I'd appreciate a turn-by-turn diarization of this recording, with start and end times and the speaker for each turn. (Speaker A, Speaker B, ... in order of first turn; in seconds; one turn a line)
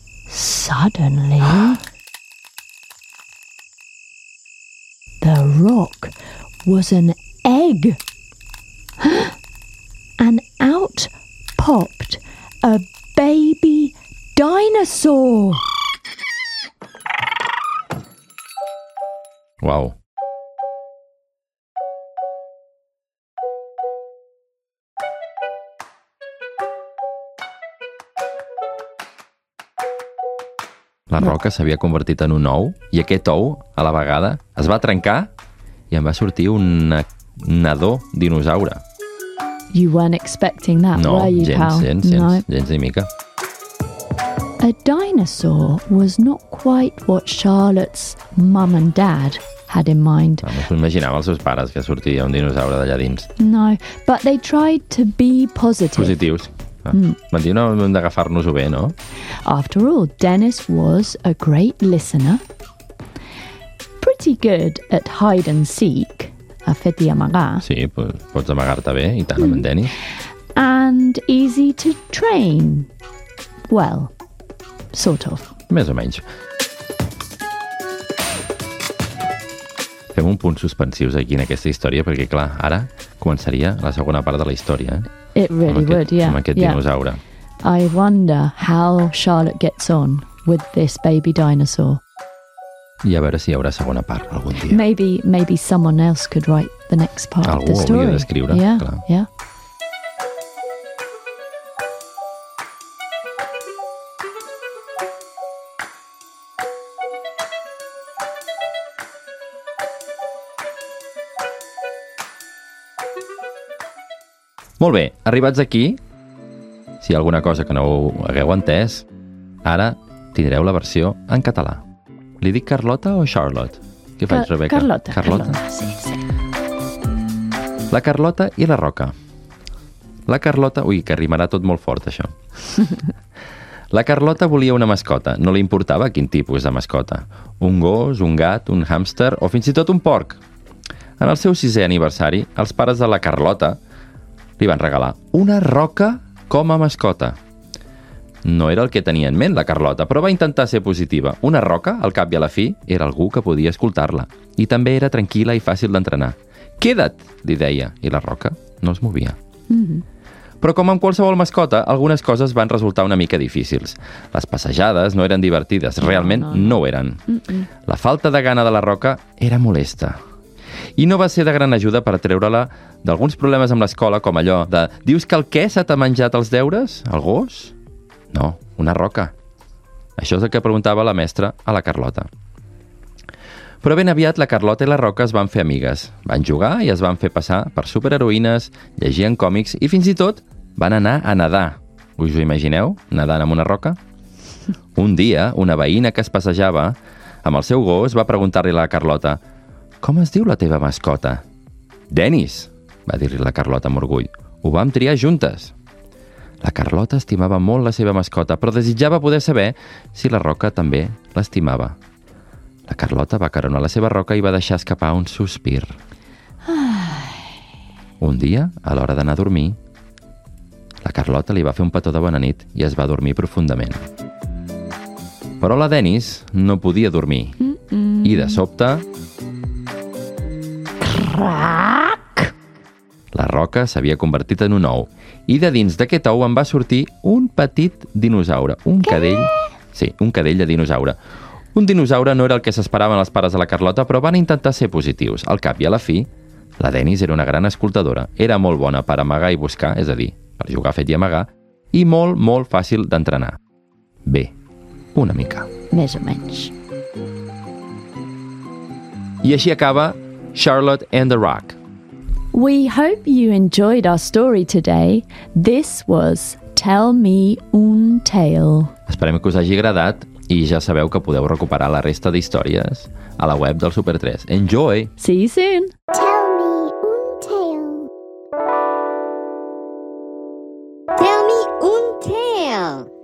Speaker A: 0.3-1.8
Speaker A: 5.2-8.0
Speaker A: 9.0-9.3
Speaker A: 10.2-15.7
Speaker B: 19.6-20.0
Speaker B: 31.1-35.3
Speaker B: 35.9-38.8
Speaker A: 39.7-42.5
Speaker B: 41.0-43.1
Speaker A: 44.6-50.5
Speaker B: 50.4-53.3
Speaker A: 53.4-56.2
Speaker B: 56.0-58.9
Speaker A: 59.5-62.4
Speaker A: 64.0-67.7
Speaker B: 67.6-70.0
Speaker A: 69.4-69.7
Speaker A: 70.5-72.9
Speaker A: 73.7-74.1
Speaker A: 74.9-75.5
Speaker B: 75.7-76.2
Speaker B: 80.1-85.1
Speaker A: 85.3-86.8
Speaker B: 85.7-87.2
Speaker A: 87.6-92.0
Speaker B: 93.0-94.8
Speaker A: 94.7-99.3
Speaker B: 97.4-99.0
Speaker B: 114.8-116.0
Speaker B: 117.0-119.1
Speaker B: 119.7-121.8
Speaker B: 122.4-125.6
Speaker A: 124.3-126.2
Speaker B: 127.9-129.1
Speaker B: 130.3-132.3
Speaker B: 133.9-140.4
Speaker B: 141.2-143.8
Speaker B: 144.6-147.4
Speaker B: 148.4-159.4
Speaker A: 159.7-160.0
Speaker B: 160.6-167.2
Speaker A: 166.0-167.7
Speaker B: 167.9-170.2
Speaker B: 171.0-177.7
Speaker B: 178.3-179.3
Speaker B: 180.2-182.3
Speaker B: 183.8-194.0
Speaker B: 195.0-199.4
Speaker B: 200.0-201.4
Speaker B: 202.1-205.7
Speaker B: 206.6-212.0
Speaker B: 212.9-215.9
Speaker A: 216.7-217.5
Speaker B: 218.2-219.8
Speaker B: 221.0-224.1
Speaker B: 225.6-227.6
Speaker A: 227.6-228.6
Speaker B: 228.2-229.1
Speaker A: 231.0-232.5
Speaker B: 233.3-241.2
Speaker A: 239.1-239.6
Speaker B: 241.8-246.3
Speaker B: 246.8-253.6
Speaker B: 254.3-254.5
Speaker B: 255.2-255.7
Speaker A: 255.9-256.7
Speaker B: 259.4-261.8
Speaker A: 262.5-268.9
Speaker B: 269.1-275.1
Speaker A: 275.2-275.9
Speaker C: 276.1-278.1
Speaker C: 281.1-283.1